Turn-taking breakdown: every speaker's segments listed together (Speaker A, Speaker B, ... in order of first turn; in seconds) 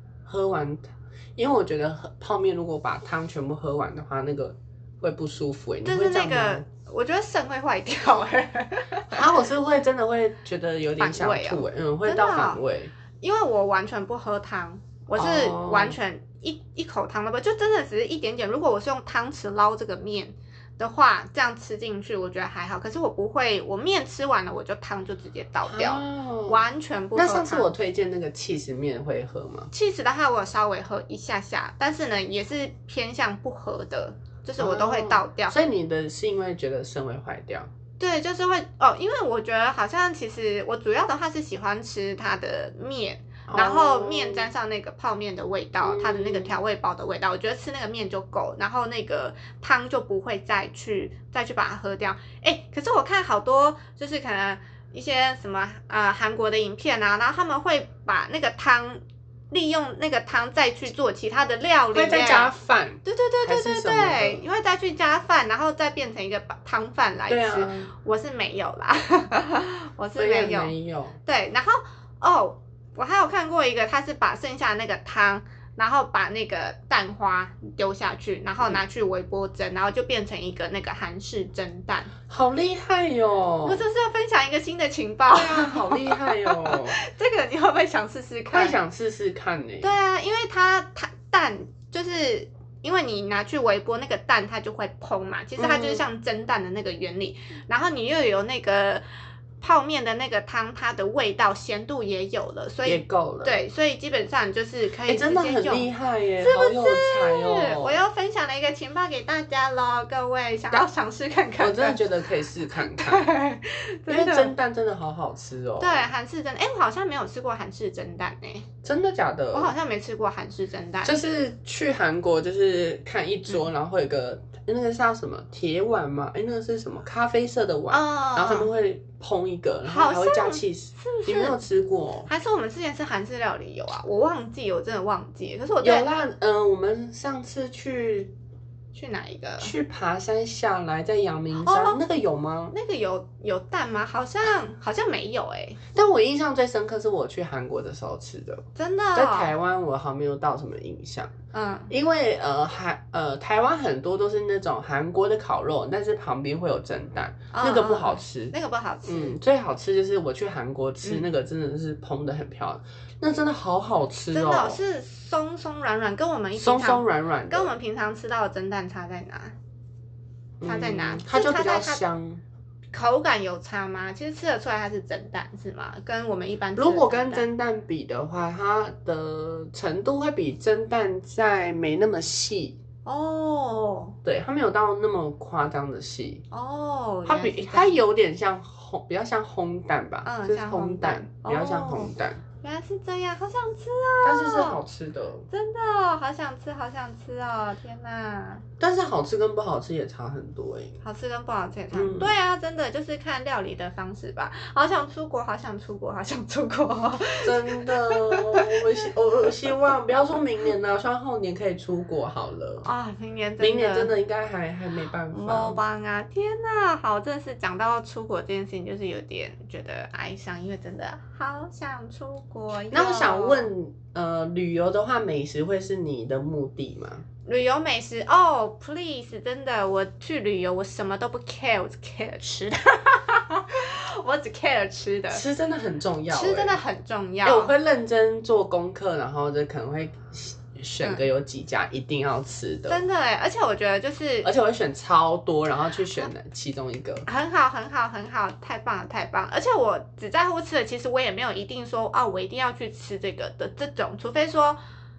Speaker A: 0.2-6.7, 9.1-12.9, 15.2-16.0, 25.7-26.6, 27.1-29.7, 34.6-37.7, 43.5-44.5, 45.8-46.5, 61.9-64.5, 67.3-67.9, 70.2-71.2, 82.3-83.8, 85.3-87.0, 88.5-90.0, 95.6-96.0, 102.8-103.6, 105.1-108.0, 111.6-113.3, 114.1-116.1, 118.8-119.8, 121.0-132.3, 135.8-138.3, 139.6-142.7, 145.9-151.3, 151.9-158.5, 159.1-164.8, 166.6-167.7, 170.6-172.4, 176.8-182.8, 184.2-186.4, 187.2-192.4, 194.2-195.5, 198.8-201.0, 201.9-202.3, 207.4-212.9, 213.6-215.8, 222.9-227.2, 235.3-236.8, 237.4-243.0, 244.4-247.3
Speaker B: 5.8-9.3, 11.0-12.6, 13.2-27.7, 29.7-35.6, 38.0-62.5, 63.0-70.7, 71.2-82.1, 83.6-88.8, 89.8-99.0, 99.6-112.0, 112.8-114.5, 115.8-118.7, 119.5-121.2, 127.9-128.7, 129.9-131.6, 132.3-136.1, 138.9-139.7, 141.6-142.0, 142.7-145.8, 148.8-149.5, 151.5-151.9, 157.5-159.4, 164.3-169.6, 170.6-172.0, 172.9-177.5, 183.1-184.2, 186.5-188.0, 190.2-194.8, 195.5-198.6, 201.0-209.1, 212.8-214.1, 215.3-223.7, 227.5-235.4, 236.3-237.7, 242.9-244.5, 247.3-254.8